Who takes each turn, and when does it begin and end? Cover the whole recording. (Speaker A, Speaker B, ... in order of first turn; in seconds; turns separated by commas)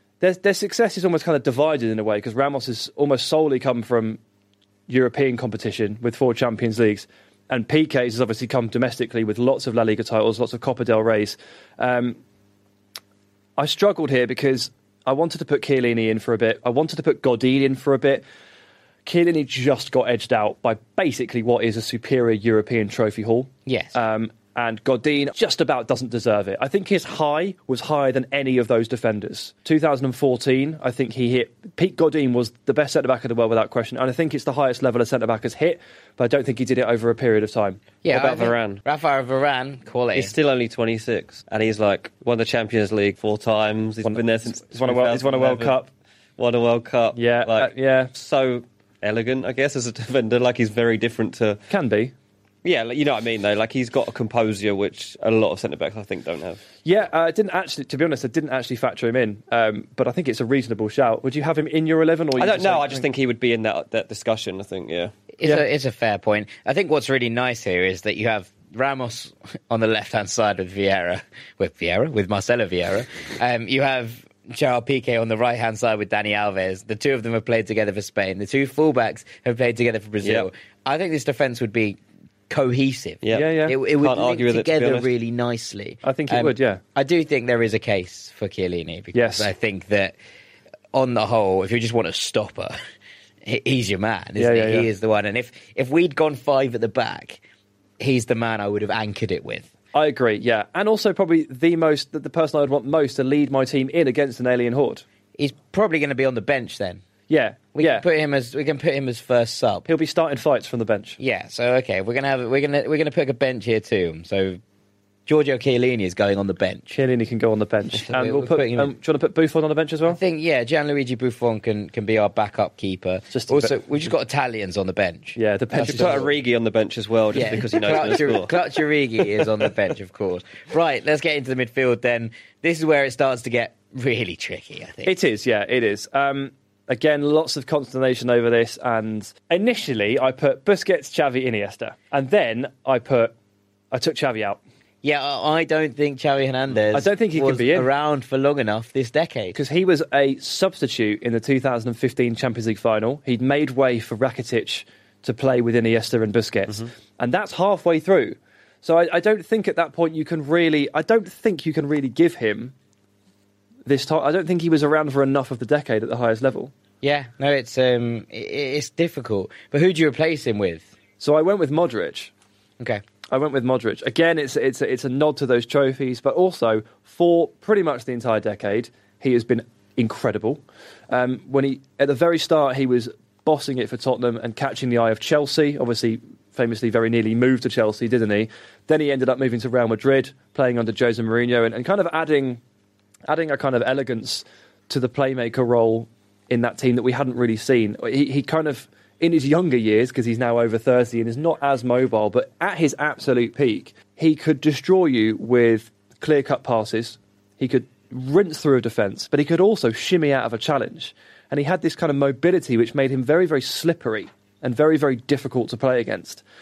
Speaker A: 0.2-4.2, Speaker A: 4.9-12.2, Speaker A: 13.6-18.2, Speaker A: 19.1-37.8, Speaker B: 23.6-23.9, Speaker B: 38.0-40.3, Speaker C: 38.1-38.8, Speaker C: 40.1-45.8, Speaker A: 44.0-45.9, Speaker C: 46.4-51.6, Speaker A: 47.1-48.1, Speaker A: 51.7-52.1, Speaker C: 52.6-56.6, Speaker A: 56.8-63.1, Speaker C: 62.4-65.1, Speaker B: 65.3-90.1, Speaker C: 80.2-80.5, Speaker C: 83.2-85.1, Speaker A: 83.3-83.7, Speaker A: 86.0-86.8, Speaker A: 89.1-89.5, Speaker B: 90.9-92.7, Speaker B: 93.4-97.4, Speaker A: 94.4-94.9, Speaker B: 98.0-99.7, Speaker A: 99.9-105.0, Speaker B: 105.4-107.0, Speaker A: 107.3-108.0, Speaker B: 107.7-109.8, Speaker A: 109.8-111.2, Speaker B: 111.2-114.6, Speaker B: 115.2-117.0, Speaker A: 116.9-120.2, Speaker B: 118.1-118.9, Speaker B: 120.0-126.3, Speaker A: 123.3-123.8, Speaker A: 125.3-126.3, Speaker C: 125.8-128.5, Speaker B: 127.3-135.1, Speaker A: 135.0-143.3, Speaker A: 143.9-144.6, Speaker B: 145.0-149.6, Speaker A: 146.9-147.9, Speaker A: 149.5-162.7, Speaker A: 163.8-166.7, Speaker B: 167.0-170.9, Speaker A: 171.2-172.3, Speaker A: 173.3-192.6, Speaker A: 193.3-216.4